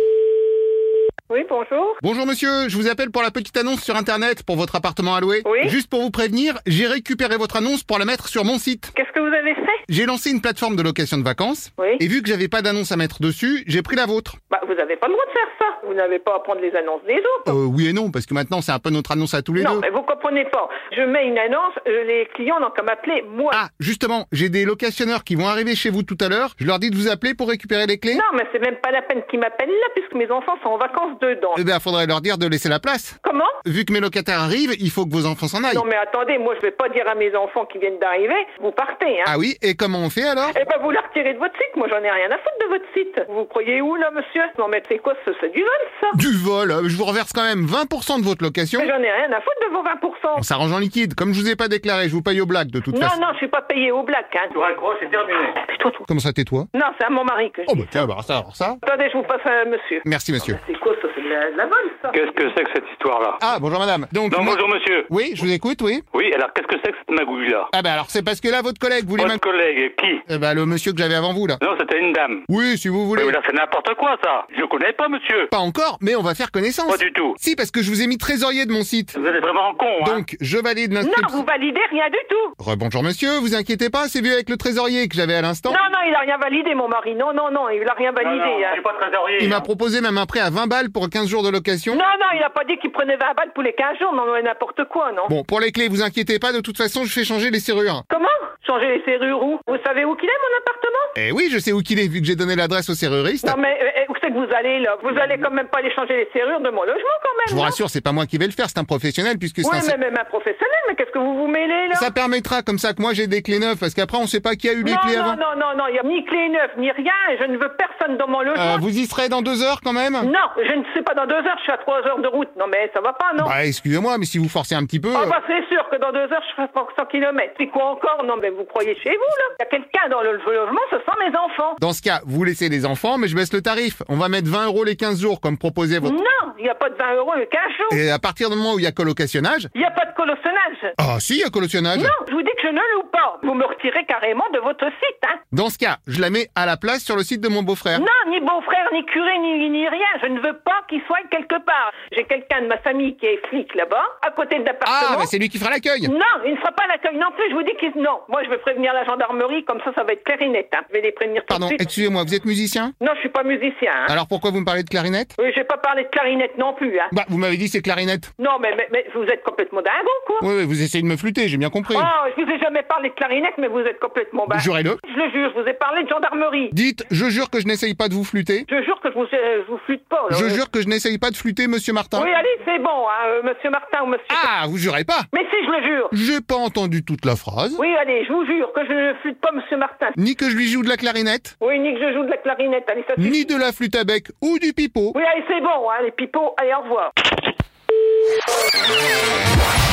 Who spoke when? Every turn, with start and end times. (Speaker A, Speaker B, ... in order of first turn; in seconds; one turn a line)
Speaker A: 1.3-2.0
Speaker B: 2.0-8.9
Speaker A: 5.4-5.7
Speaker A: 8.9-9.8
Speaker B: 9.9-14.4
Speaker A: 14.5-17.6
Speaker B: 17.4-19.8
Speaker A: 19.6-23.6
Speaker B: 23.5-28.2
Speaker A: 28.1-31.6
Speaker B: 31.5-35.9
Speaker A: 33.2-33.6
Speaker A: 35.7-39.3
Speaker B: 39.2-40.6
Speaker A: 40.5-46.2
Speaker B: 46.1-48.9
Speaker A: 48.8-50.4
Speaker B: 50.4-53.1
Speaker A: 52.9-54.6
Speaker C: 54.5-55.5
Speaker A: 55.5-56.0
Speaker B: 56.1-56.7
Speaker A: 56.7-58.0
Speaker B: 57.7-58.8
Speaker A: 58.8-62.2
Speaker B: 60.0-60.6
Speaker C: 62.1-63.4
Speaker B: 63.4-66.0
Speaker C: 64.3-65.1
Speaker C: 66.1-67.7
Speaker B: 67.7-69.4
Speaker C: 69.2-70.2
Speaker B: 70.3-71.6
Speaker C: 71.6-72.4
Speaker B: 72.5-73.4
Speaker C: 73.2-75.5
Speaker B: 75.5-79.2
Speaker C: 76.9-77.3
Speaker C: 79.1-80.2
Speaker B: 80.0-81.4
Speaker A: 81.0-82.5
Speaker B: 82.6-85.8
Speaker A: 85.7-88.8
Speaker C: 88.2-89.6
Speaker B: 89.4-92.0
Speaker A: 91.9-95.3
Speaker B: 95.3-98.0
Speaker A: 98.1-101.1
Speaker B: 101.2-103.5
Speaker A: 103.4-107.8
Speaker B: 107.5-110.0
Speaker A: 109.6-112.1
Speaker B: 111.9-115.4
Speaker A: 114.8-118.8
Speaker B: 118.5-120.3
Speaker A: 120.2-123.5
Speaker B: 123.4-125.3
Speaker A: 125.1-131.8
Speaker B: 131.8-136.2
Speaker A: 136.0-138.0
Speaker B: 137.9-139.7
Speaker A: 139.7-140.9
Speaker B: 141.0-142.1
Speaker A: 141.9-145.4
Speaker B: 145.5-148.1
Speaker A: 147.9-155.3
Speaker B: 154.8-156.1
Speaker A: 156.0-161.9
Speaker B: 161.5-162.9
Speaker A: 163.0-164.1
Speaker B: 164.1-165.3
Speaker A: 165.4-167.1
Speaker B: 167.1-168.3
Speaker A: 168.4-170.4
Speaker B: 170.4-172.1
Speaker A: 171.9-176.7
Speaker B: 174.5-175.0
Speaker B: 176.7-178.7
Speaker A: 178.7-180.6
Speaker B: 180.3-182.3
Speaker A: 182.1-184.5
Speaker B: 184.3-185.3
Speaker A: 185.3-186.1
Speaker B: 186.1-187.8
Speaker A: 187.8-190.2
Speaker B: 190.2-191.5
Speaker A: 191.6-193.5
Speaker B: 193.2-195.2
Speaker A: 195.1-197.1